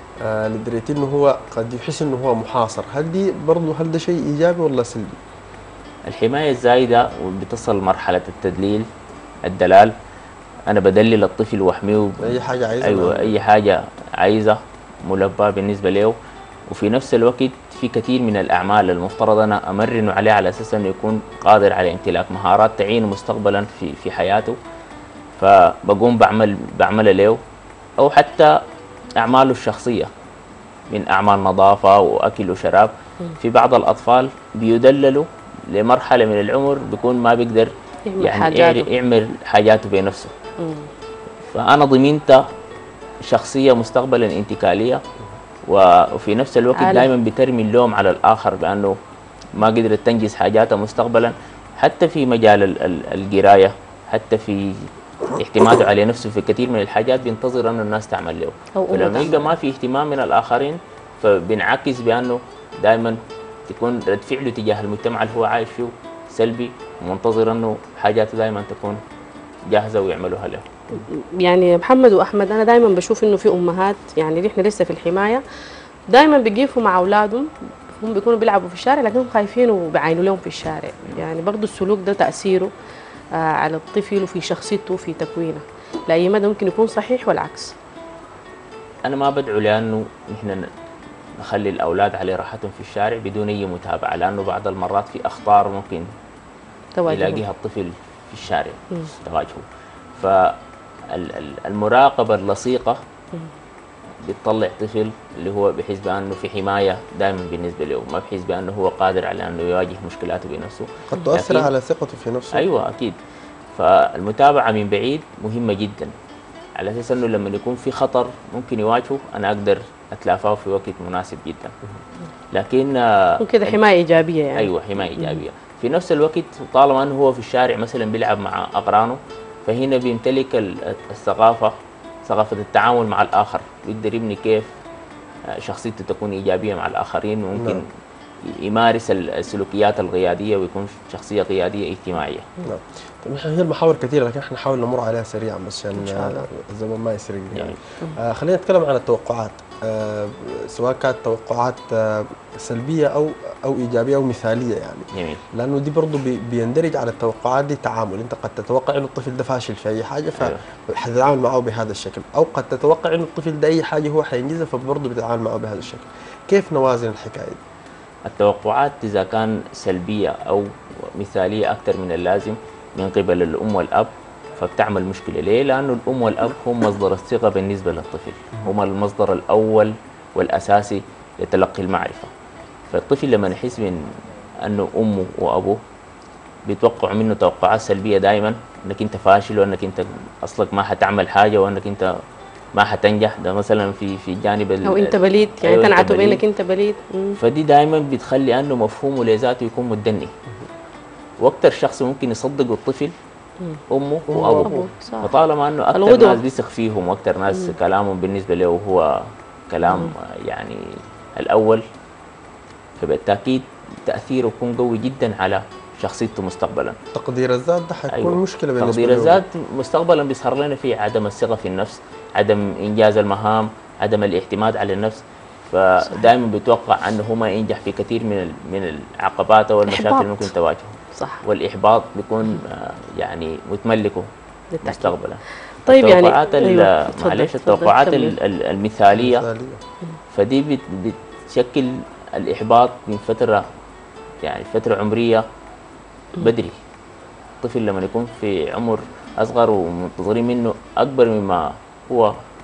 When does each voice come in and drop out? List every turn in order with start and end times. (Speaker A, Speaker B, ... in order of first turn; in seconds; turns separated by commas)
Speaker A: 0.2-5.1, Speaker B: 6.1-8.8, Speaker B: 9.4-9.9, Speaker B: 10.7-16.1, Speaker A: 12.2-13.4, Speaker B: 16.7-24.6, Speaker B: 25.4-27.4, Speaker B: 28.0-28.5, Speaker B: 29.2-30.1, Speaker B: 30.9-40.3, Speaker C: 38.1-38.9, Speaker C: 40.6-40.9, Speaker B: 41.5-42.4, Speaker B: 43.2-45.0, Speaker B: 45.7-48.9, Speaker C: 46.7-47.1, Speaker B: 49.5-69.0, Speaker C: 58.8-59.5, Speaker B: 69.7-70.7, Speaker C: 70.9-75.4, Speaker C: 76.1-77.5, Speaker C: 78.0-82.7, Speaker C: 83.4-87.7, Speaker B: 89.0-90.7, Speaker B: 91.4-96.1, Speaker C: 97.0-97.4, Speaker B: 97.1-99.7, Speaker B: 100.2-100.5, Speaker B: 101.1-103.0, Speaker B: 104.2-111.7, Speaker A: 111.1-112.7, Speaker B: 112.5-113.2, Speaker B: 113.7-116.1, Speaker B: 116.8-121.7, Speaker B: 122.5-123.8, Speaker C: 123.4-125.4, Speaker B: 124.5-131.7, Speaker B: 132.2-134.6, Speaker B: 135.5-137.8, Speaker A: 137.5-137.8, Speaker B: 138.5-142.5, Speaker A: 142.6-167.6, Speaker C: 146.0-146.4, Speaker B: 155.1-155.4, Speaker B: 160.4-160.6, Speaker B: 168.2-182.3, Speaker B: 182.9-184.1, Speaker B: 184.7-185.8, Speaker B: 186.7-192.1, Speaker B: 192.8-196.4, Speaker C: 194.8-197.4, Speaker B: 197.4-200.3, Speaker B: 201.4-203.1, Speaker B: 203.9-209.1, Speaker A: 204.3-204.9, Speaker C: 204.6-205.3, Speaker C: 205.9-206.4, Speaker B: 209.7-210.8, Speaker C: 209.8-210.1, Speaker B: 211.4-211.8, Speaker B: 213.0-216.9, Speaker A: 217.1-219.4, Speaker B: 218.1-234.3, Speaker C: 226.0-226.3, Speaker C: 229.9-230.5, Speaker C: 231.1-231.4, Speaker C: 234.7-235.2, Speaker B: 234.8-239.4, Speaker C: 235.9-238.4, Speaker A: 239.1-239.8, Speaker B: 240.3-243.6, Speaker B: 244.4-245.4, Speaker B: 246.4-246.8, Speaker B: 247.6-252.3